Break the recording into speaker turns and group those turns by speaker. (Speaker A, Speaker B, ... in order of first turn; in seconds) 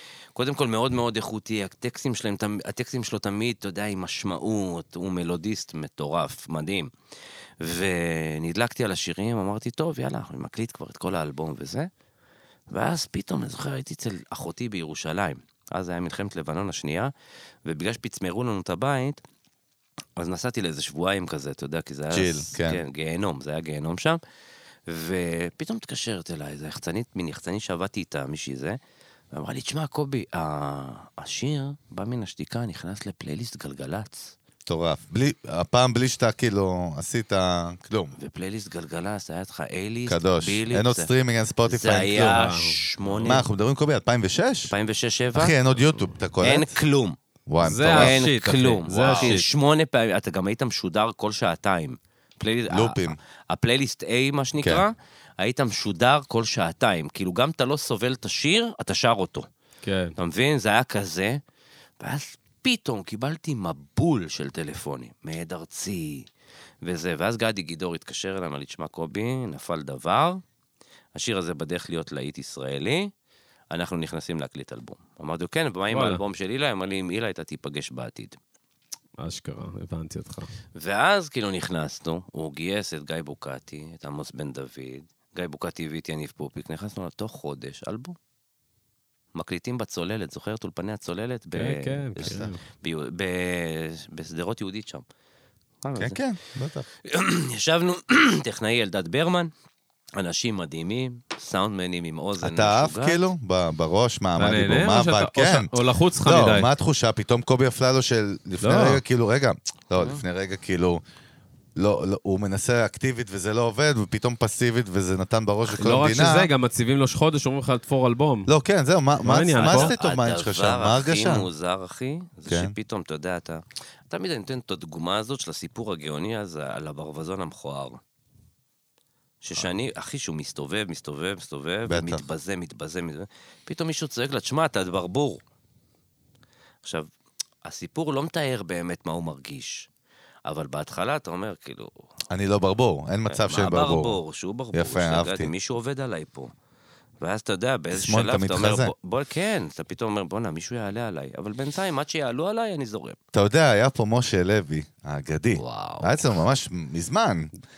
Speaker A: 0.4-6.9, 7.6-11.9, 12.7-17.1, 17.6-19.2, 20.2-24.2, 24.9-28.8, 29.3-34.4, 38.2-41.1, 41.6-43.5, 44.7-45.5, 46.4-47.2, 47.9-59.5, 60.2-61.4, 62.0-66.3, 66.8-70.4, 71.1-73.1, 73.7-78.4, 80.8-88.2, 89.3-95.0, 95.8-96.2, 97.0-99.5, 100.2-103.2, 110.0-110.2, 119.6-128.0, 129.4-135.4, 137.6-139.9, 140.5-141.9, 143.3-146.5, 147.2-153.2, 155.6-156.3
Speaker B: 22.1-22.8, 34.7-38.1, 40.1-42.4, 43.2-44.7, 45.3-46.8, 47.5-48.3, 49.0-49.4, 52.7-53.2, 92.2-92.5, 96.0-96.9, 102.4-111.0, 111.8-116.5, 118.5-121.5, 122.5-122.8, 131.9-132.3, 142.3-144.2, 144.7-145.5, 147.9-148.9, 153.3-157.5
Speaker C: 42.2-43.3, 47.6-49.5, 59.8-60.1, 75.9-76.2, 79.2-80.5, 91.5-92.6, 104.4-106.7, 108.6-109.0, 115.7-118.5, 119.2-119.9